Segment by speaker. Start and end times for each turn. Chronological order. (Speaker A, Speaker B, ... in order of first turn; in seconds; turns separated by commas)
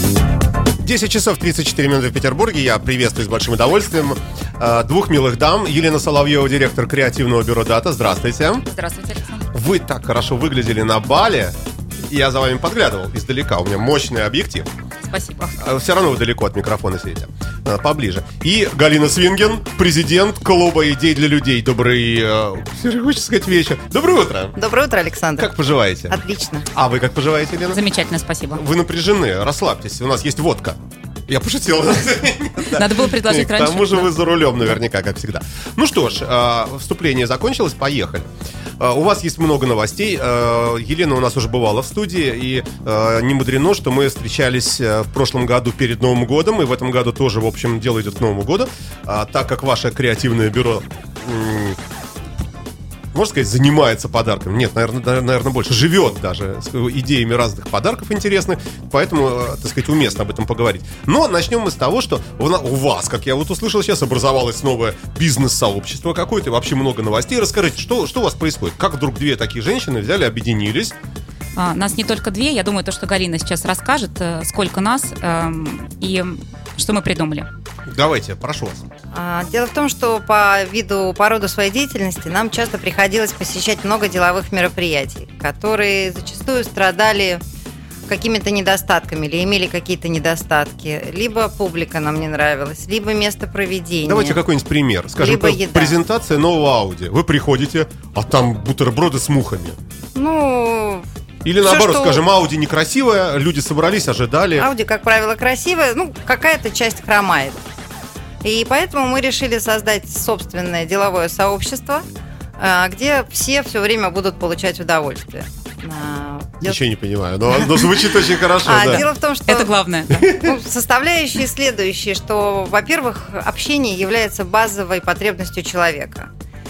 Speaker A: 0.8-8.6, Speaker B: 8.6-9.5, Speaker A: 9.5-14.7, Speaker B: 15.0-15.6, Speaker A: 15.6-24.6, Speaker C: 24.6-25.5, Speaker A: 25.4-26.2, Speaker C: 26.1-26.7, Speaker A: 26.7-27.8, Speaker B: 27.7-28.6, Speaker A: 28.5-51.8, Speaker B: 32.6-34.1, Speaker A: 53.1-71.0, Speaker B: 71.6-77.5, Speaker A: 77.9-78.8, Speaker C: 79.1-87.4, Speaker C: 88.1-94.4, Speaker A: 94.0-99.8, Speaker C: 95.2-96.0, Speaker C: 100.2-101.0, Speaker A: 101.4-104.7, Speaker C: 101.6-102.2, Speaker C: 104.6-107.6, Speaker C: 108.4-112.0, Speaker C: 112.6-116.8, Speaker A: 116.6-119.1, Speaker C: 117.6-117.9, Speaker C: 118.6-119.7, Speaker B: 118.9-120.4, Speaker A: 120.1-120.5, Speaker C: 120.3-126.3